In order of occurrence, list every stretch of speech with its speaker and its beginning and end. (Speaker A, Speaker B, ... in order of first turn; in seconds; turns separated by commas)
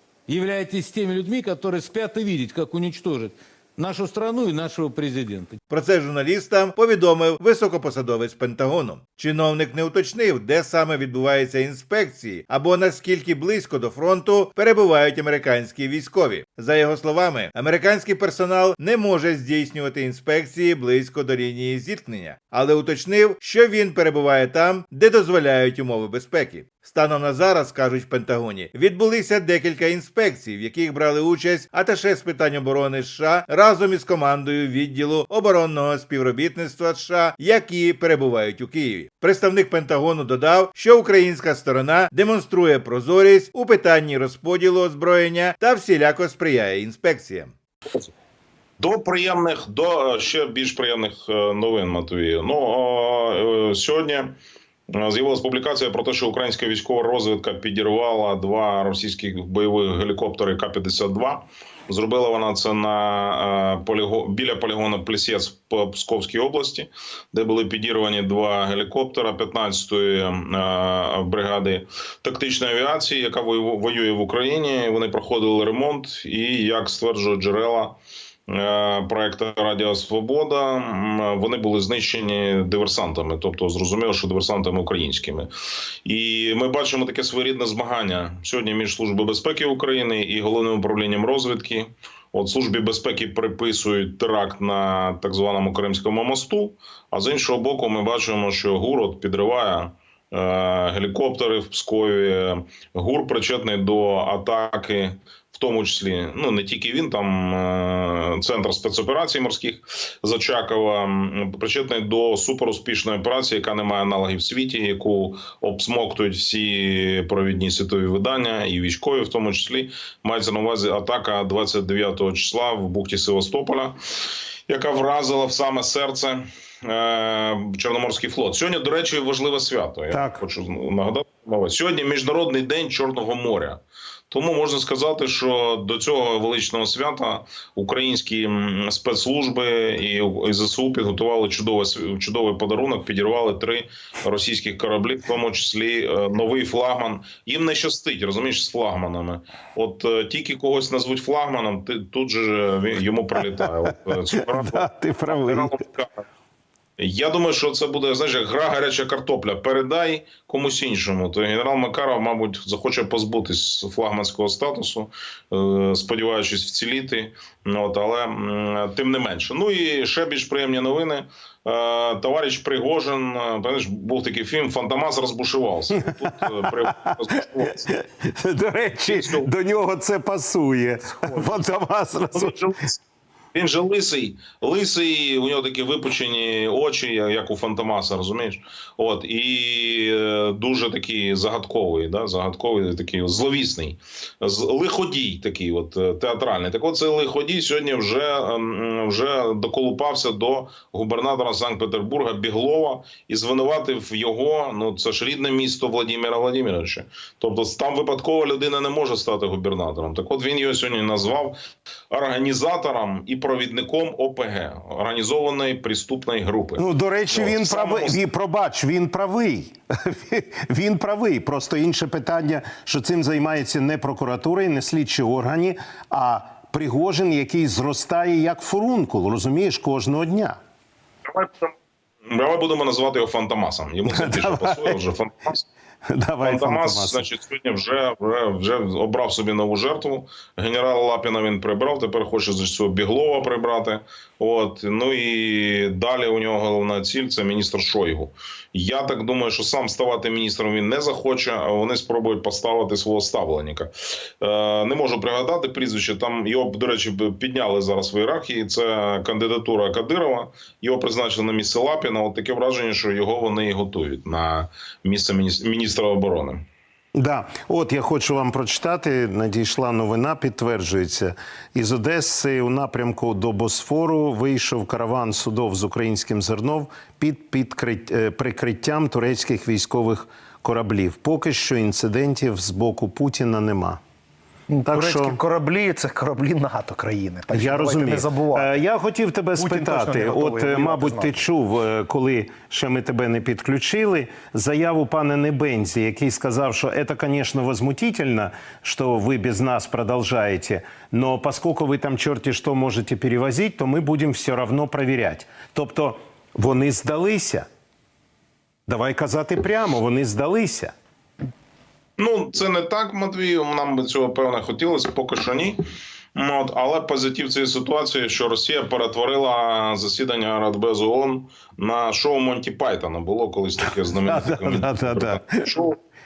Speaker A: 0.3-5.6, Speaker B: 5.7-47.5, Speaker C: 48.8-54.4, Speaker C: 54.9-78.0, Speaker C: 78.5-85.5, Speaker C: 86.0-124.0, Speaker C: 124.7-156.2, Speaker D: 130.1-130.4, Speaker D: 153.4-155.8, Speaker C: 157.0-178.0, Speaker D: 175.9-182.7, Speaker C: 179.1-179.5, Speaker C: 182.3-183.0, Speaker C: 183.5-211.6, Speaker C: 212.1-218.2, Speaker D: 216.8-230.6, Speaker C: 231.3-235.7, Speaker D: 234.1-235.0, Speaker D: 236.1-237.3, Speaker C: 236.4-266.6, Speaker D: 267.2-284.0, Speaker E: 284.7-288.8, Speaker D: 284.9-285.4, Speaker D: 287.5-307.7, Speaker E: 289.6-291.4, Speaker D: 308.9-310.9, Speaker C: 312.2-315.8, Speaker C: 316.4-326.0, Speaker D: 323.8-325.6